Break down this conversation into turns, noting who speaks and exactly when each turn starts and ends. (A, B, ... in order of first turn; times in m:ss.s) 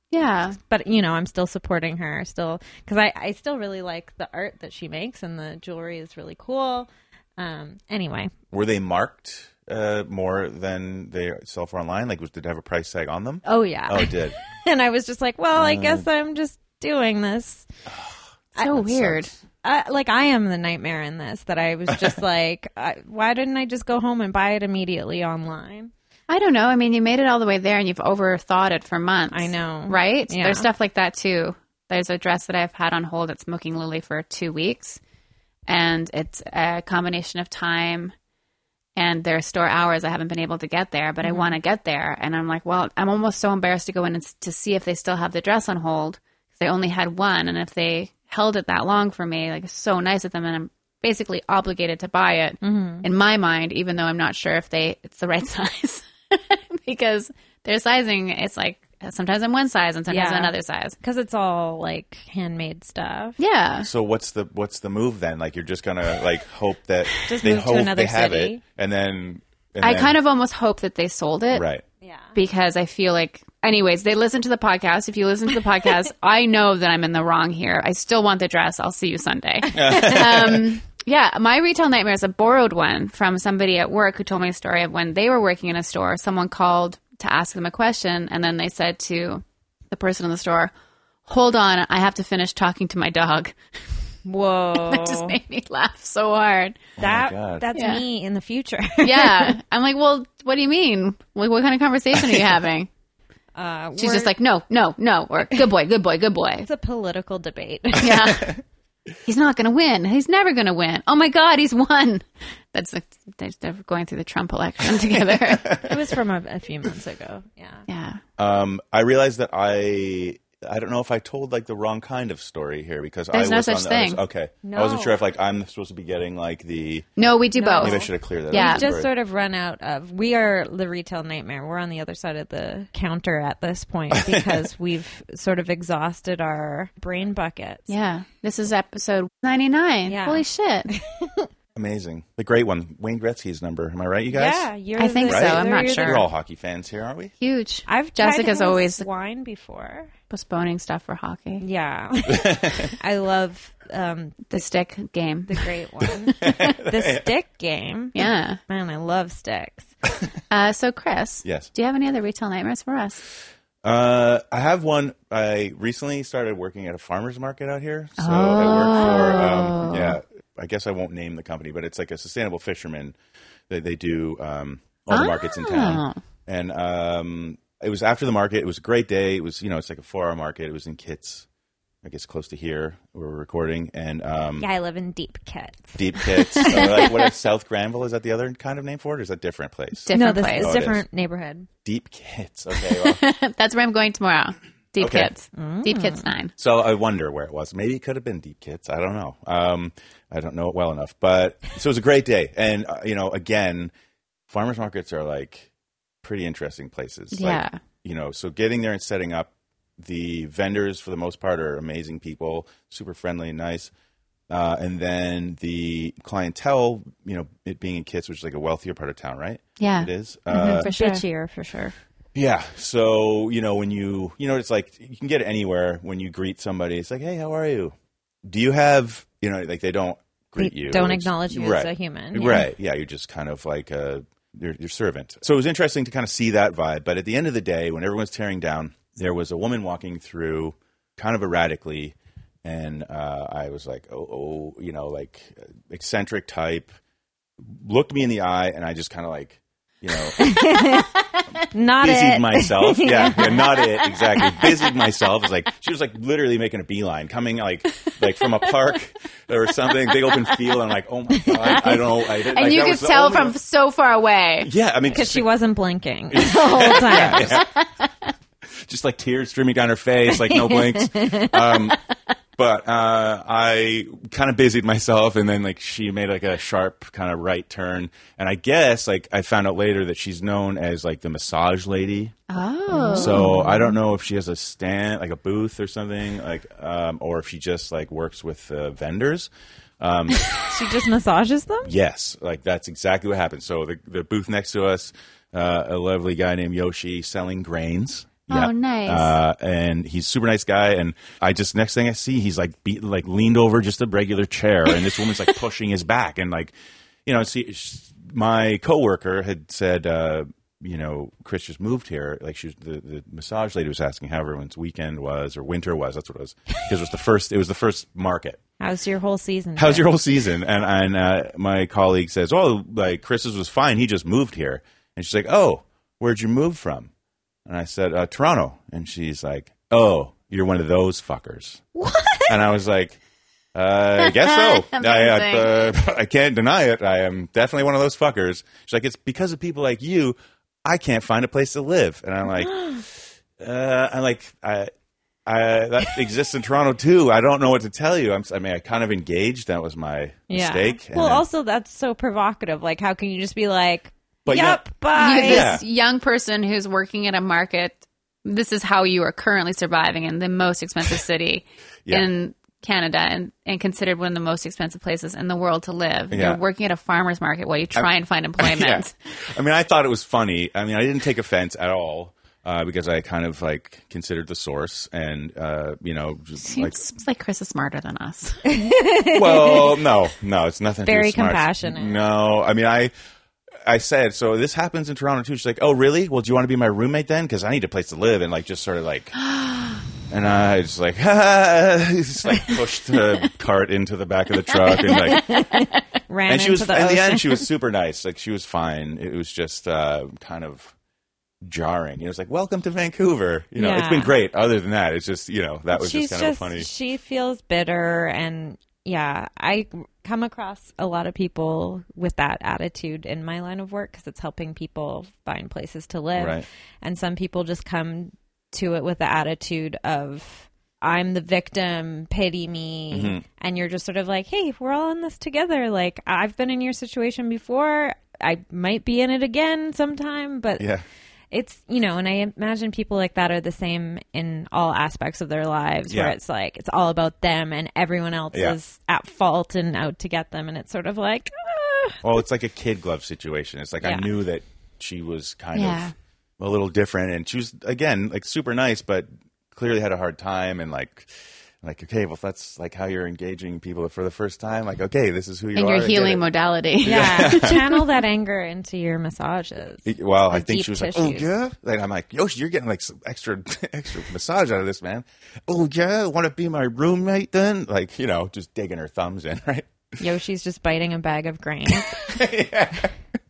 0:00.1-0:00.6 A
0:00.6-0:08.3 B
0:08.5-0:14.4 C
0:13.4-0:17.7 B
0:15.5-0:16.0 C
0:17.9-0:19.3 C
0:18.6-0:19.3 A
0:19.6-0:25.9 B
0:26.3-0:35.0 A
0:29.3-0:30.7 B
0:35.7-0:38.1 A
0:39.0-1:01.0 A
0:41.2-0:41.6 B
0:52.6-0:53.0 B
1:00.1-1:03.4 B
1:03.4-1:03.9 A
1:03.8-1:10.2 C
1:07.3-1:08.6 B
1:09.8-1:11.6 A
1:11.5-1:11.8 C
1:12.0-1:12.3 B
1:12.3-1:30.7 A
1:19.7-1:20.7 C
1:31.3-1:33.5 A
1:34.2-1:35.4 B
1:34.7-1:36.8 A
1:37.0-1:37.7 C
1:37.0-1:39.6 B
1:37.7-1:38.0 A
1:39.0-1:42.9 A
1:43.5-1:44.3 B
1:44.0-1:46.6 A
1:46.6-1:48.3 B
1:48.0-1:48.5 A
1:49.2-1:55.8 A
1:55.4-1:56.0 C
1:55.8-1:57.8 B
1:57.9-1:58.2 A
1:58.4-2:07.1 C
2:03.3-2:04.2 A
2:04.6-2:05.2 B
2:07.2-2:08.8 A
2:07.6-2:17.9 B
2:07.8-2:09.1 C
2:14.1-2:14.6 C
2:17.9-2:20.9 A
2:20.1-2:21.5 B
2:21.7-2:24.7 C
2:24.3-2:26.2 B
2:25.0-2:26.2 A
2:25.3-2:27.3 C
2:27.4-2:29.0 A
2:27.9-2:30.1 B
2:30.3-2:31.6 A
2:31.6-2:34.6 B
2:32.3-2:32.9 C
2:34.5-2:35.7 A
2:35.5-2:39.9 B
2:36.3-2:36.7 A
2:36.4-2:37.3 C
2:38.1-2:38.6 A
2:40.5-2:43.2 A
2:41.4-2:41.7 C
2:43.8-2:53.1 C
2:48.2-2:50.2 A
2:49.0-2:49.6 B
2:53.7-3:01.4 C
2:55.1-2:56.2 A
3:02.0-3:04.7 C
3:04.6-3:07.0 B
3:06.0-3:11.0 C
3:06.7-3:07.1 A
3:10.0-3:10.8 A
3:10.1-3:11.7 B
3:11.8-3:13.2 C
3:12.8-3:16.5 A
3:15.0-3:15.3 C
3:15.5-3:16.3 B
3:16.6-3:23.9 C
3:24.5-3:25.7 C
3:26.2-3:33.9 C
3:27.3-3:27.8 A
3:34.5-3:40.9 C
3:39.8-3:41.2 A
3:40.8-3:41.9 B
3:42.3-4:06.9 C
3:50.6-3:52.6 B
4:07.6-4:10.7 C
4:10.4-4:11.1 B
4:11.7-4:14.0 B
4:12.0-4:23.6 C
4:20.1-4:20.6 A
4:21.3-4:21.8 B
4:21.6-4:24.7 A
4:24.6-4:25.5 C
4:25.1-4:27.6 B
4:26.3-4:27.7 C
4:27.1-4:28.0 A
4:28.8-4:32.0 C
4:30.4-4:31.6 B
4:32.6-4:42.4 C
4:42.5-4:43.5 A
4:42.9-4:43.9 B
4:43.1-4:49.5 C
4:50.0-4:50.5 C
4:50.7-4:51.9 B
4:51.8-5:06.7 C
4:58.5-4:59.4 A
5:07.2-5:18.6 C
5:18.8-5:20.1 B
5:19.8-5:27.1 C
5:27.6-5:31.8 C
5:31.9-5:32.6 B
5:32.5-5:33.2 C
5:33.7-5:44.9 C
5:34.2-5:35.9 A
5:42.6-5:43.0 B
5:45.4-5:51.4 C
5:50.5-5:55.7 B
5:54.4-5:54.8 C
5:55.1-6:09.1 A
5:55.4-5:55.8 C
6:06.3-6:06.6 C
6:08.6-6:17.0 C
6:16.6-6:18.6 A
6:18.6-6:20.0 B
6:19.3-6:23.1 C
6:21.0-6:22.2 B
6:23.8-6:29.4 C
6:29.6-6:30.0 A
6:30.3-6:35.4 C
6:34.9-6:36.0 A
6:35.1-6:37.6 B
6:36.5-6:40.9 C
6:41.6-6:46.9 C
6:43.8-6:44.3 B
6:45.9-7:10.8 B
6:56.4-6:56.6 C
7:03.1-7:03.4 C
7:10.8-7:11.0 C
7:11.5-7:22.2 B
7:16.1-7:16.4 C
7:18.5-7:18.8 C
7:22.2-7:31.3 C
7:24.0-7:24.3 B
7:25.7-7:26.1 A
7:31.8-7:36.4 C
7:35.7-7:38.0 A
7:37.0-7:37.8 C
7:37.0-7:41.5 B
7:40.0-7:50.2 C
7:50.2-7:52.2 B
7:51.9-7:53.1 C